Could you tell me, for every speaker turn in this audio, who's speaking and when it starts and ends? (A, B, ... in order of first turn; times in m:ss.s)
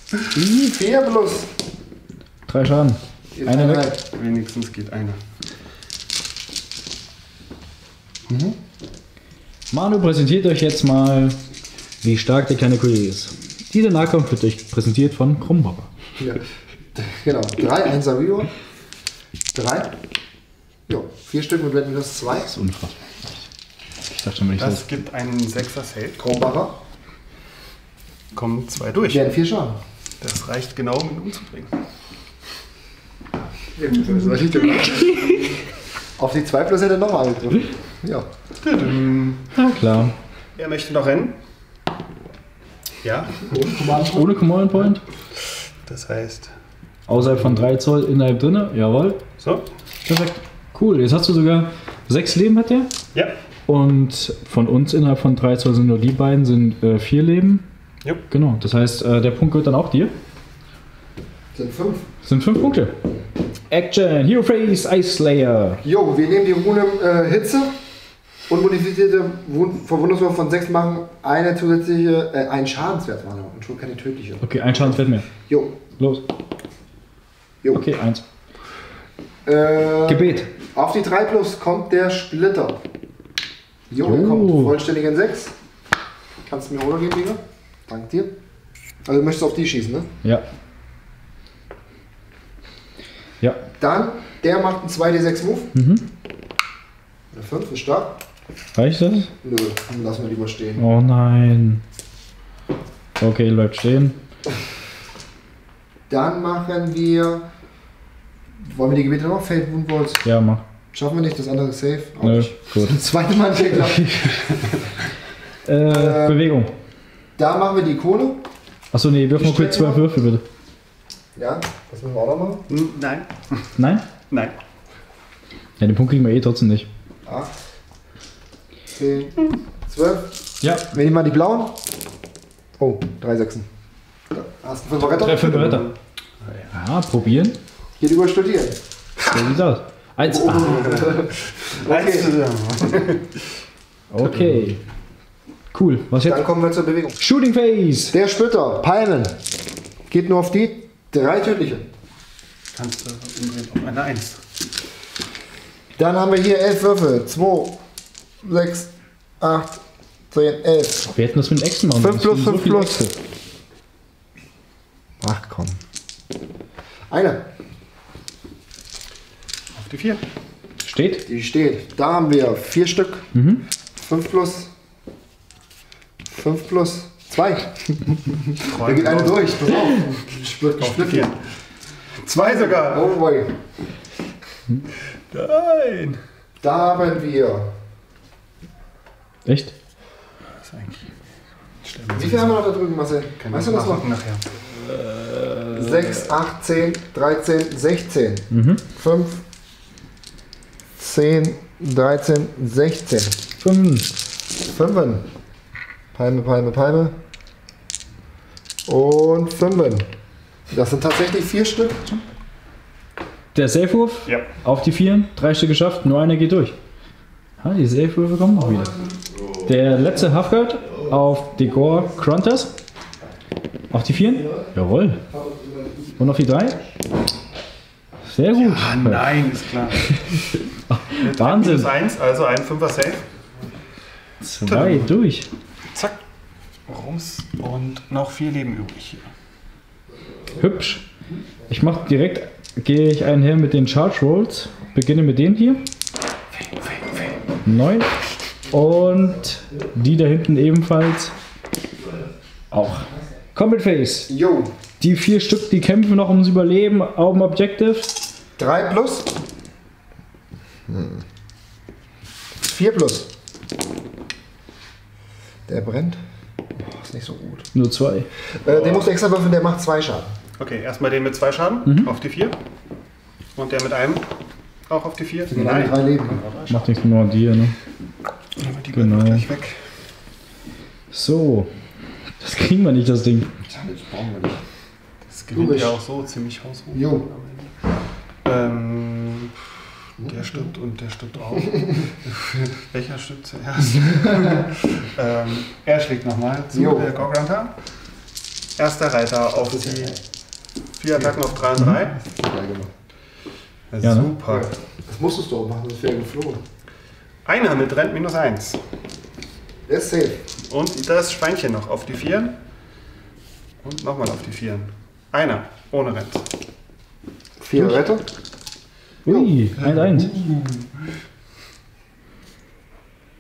0:00.3-0:01.5 A
0:02.5-0:03.9 B
0:03.4-0:04.0 A
0:04.1-0:05.2 C
0:08.3-0:08.6 A
0:09.7-0:11.4 B
0:12.0-0:15.9 B
0:16.2-0:16.4 A
0:16.9-0:18.5 A
0:19.5-0:20.0 A
0:20.9-0:22.5 A
0:22.4-0:23.5 B
0:24.1-0:24.9 B
0:24.6-0:26.2 C
0:26.2-0:26.8 A
0:28.3-0:29.3 C
0:29.1-0:29.8 A
0:30.2-0:31.8 C
0:33.8-0:35.4 A
0:34.4-0:35.4 C
0:35.0-0:35.3 B
0:36.2-0:38.3 A
0:38.6-0:39.5 C
0:39.5-0:40.2 B
0:40.6-0:41.4 C
0:43.0-0:43.6 C
0:43.5-0:44.9 A
0:44.0-0:45.0 B
0:45.8-0:46.5 C
0:47.1-0:49.2 B
0:47.3-0:47.6 C
0:49.4-0:49.7 C
0:50.1-0:52.9 B
0:53.7-0:57.6 B
0:58.3-1:00.1 B
1:01.5-1:02.1 A
1:02.2-1:03.0 B
1:03.7-1:05.8 B
1:05.8-1:07.8 A
1:08.5-1:15.8 A
1:14.4-1:15.3 B
1:17.7-1:18.2 B
1:19.5-1:22.8 A
1:20.1-1:20.5 B
1:23.9-1:25.5 A
1:24.0-1:24.8 B
1:26.5-1:28.3 A
1:29.0-1:30.1 A
1:33.8-1:35.7 A
1:35.7-1:36.1 B
1:37.3-1:38.2 A
1:38.8-1:39.3 B
1:39.4-1:40.8 A
1:40.8-1:41.8 B
1:43.2-1:44.2 B
1:46.1-1:47.5 A
1:48.6-1:50.3 A
1:50.2-1:50.6 B
1:50.9-1:54.7 A
1:52.2-1:53.0 B
1:53.8-1:54.5 B
1:55.6-1:56.7 B
1:55.9-1:56.4 A
1:57.4-1:58.5 A
1:58.9-2:00.4 B
1:59.4-2:00.0 A
2:01.4-2:02.7 A
2:02.7-2:03.7 C
2:03.8-2:04.1 B
2:05.8-2:06.9 B
2:07.3-2:07.5 A
2:08.9-2:10.3 A
2:10.6-2:10.9 B
2:10.8-2:11.8 A
2:12.8-2:13.7 A
2:14.3-2:15.6 A
2:15.1-2:15.9 B
2:15.2-2:15.9 C
2:16.7-2:17.6 B
2:18.0-2:19.4 A
2:19.2-2:20.9 B
2:20.2-2:22.4 A
2:20.6-2:23.4 C
2:24.1-2:24.8 B
2:25.7-2:26.4 B
2:26.2-2:27.2 A
2:27.2-2:28.2 B
2:28.1-2:29.4 A
2:30.1-2:31.9 A
2:32.8-2:34.4 C
2:36.0-2:37.8 A
2:38.4-2:41.1 A
2:41.1-2:43.0 B
2:42.0-2:43.2 A
2:45.2-2:45.8 A
2:47.1-2:47.4 A
2:49.8-2:50.2 C
2:50.8-2:51.3 B
2:51.3-2:53.3 A
2:53.3-2:53.6 B
2:54.0-2:54.7 A
2:56.2-3:01.4 A
2:58.6-3:01.4 C
3:02.2-3:03.6 A
3:02.3-3:03.1 C
3:05.3-3:06.2 C
3:06.6-3:07.7 A
3:09.5-3:09.7 B
3:10.6-3:11.1 C
3:11.8-3:12.7 C
3:12.1-3:14.0 A
3:13.4-3:14.4 C
3:14.7-3:16.2 B
3:15.7-3:19.4 A
3:18.5-3:18.8 B
3:21.0-3:23.4 A
3:23.6-3:24.1 B
3:24.6-3:25.3 A
3:26.2-3:27.2 A
3:28.9-3:30.1 A
3:30.7-3:32.2 A
3:33.5-3:36.8 B
3:37.6-3:38.9 B
3:38.7-3:39.3 A
3:39.6-3:42.7 B
3:43.9-3:45.2 B
3:44.2-3:44.7 A
3:45.2-3:46.9 A
3:46.2-3:46.8 B
3:48.2-3:49.4 B
3:48.6-3:50.1 C
3:50.0-3:51.9 B
3:51.2-3:53.2 C
3:54.4-3:55.5 B
3:54.7-3:55.1 C
3:56.9-3:59.2 C
4:00.5-4:01.1 B
4:01.7-4:05.8 B
4:06.7-4:07.4 C
4:07.6-4:08.1 B
4:08.7-4:11.3 B
4:12.7-4:14.3 B
4:14.3-4:14.8 A
4:15.0-4:18.1 B
4:18.6-4:19.3 A
4:20.9-4:21.2 A
4:22.6-4:23.3 A
4:25.7-4:26.2 A
4:26.8-4:27.7 A
4:27.7-4:28.3 B
4:28.6-4:30.4 A
4:28.6-4:29.1 C
4:30.6-4:32.6 C
4:31.8-4:32.1 B
4:33.6-4:34.3 C
4:34.9-4:37.0 C
4:35.5-4:36.4 A
4:36.7-4:37.8 B
4:38.6-4:39.9 C
4:38.9-4:39.5 B
4:41.1-4:41.7 B
4:42.4-4:43.5 B
4:43.7-4:44.6 A
4:45.3-4:47.7 C
4:45.5-4:46.0 A
4:46.9-4:47.3 A
4:48.4-4:49.7 C
4:50.2-4:57.7 C
4:53.8-4:54.7 A
4:56.7-4:57.2 A
4:58.8-5:00.2 C
4:59.6-5:00.2 A
5:01.0-5:02.2 C
5:02.2-5:02.9 A
5:03.9-5:04.7 C
5:04.0-5:04.3 B
5:04.5-5:06.6 A
5:07.5-5:08.8 C
5:09.9-5:10.5 A
5:10.7-5:12.5 C
5:13.8-5:16.5 C
5:17.6-5:18.3 A
5:19.2-5:20.3 B
5:19.3-5:19.5 A
5:19.8-5:21.1 C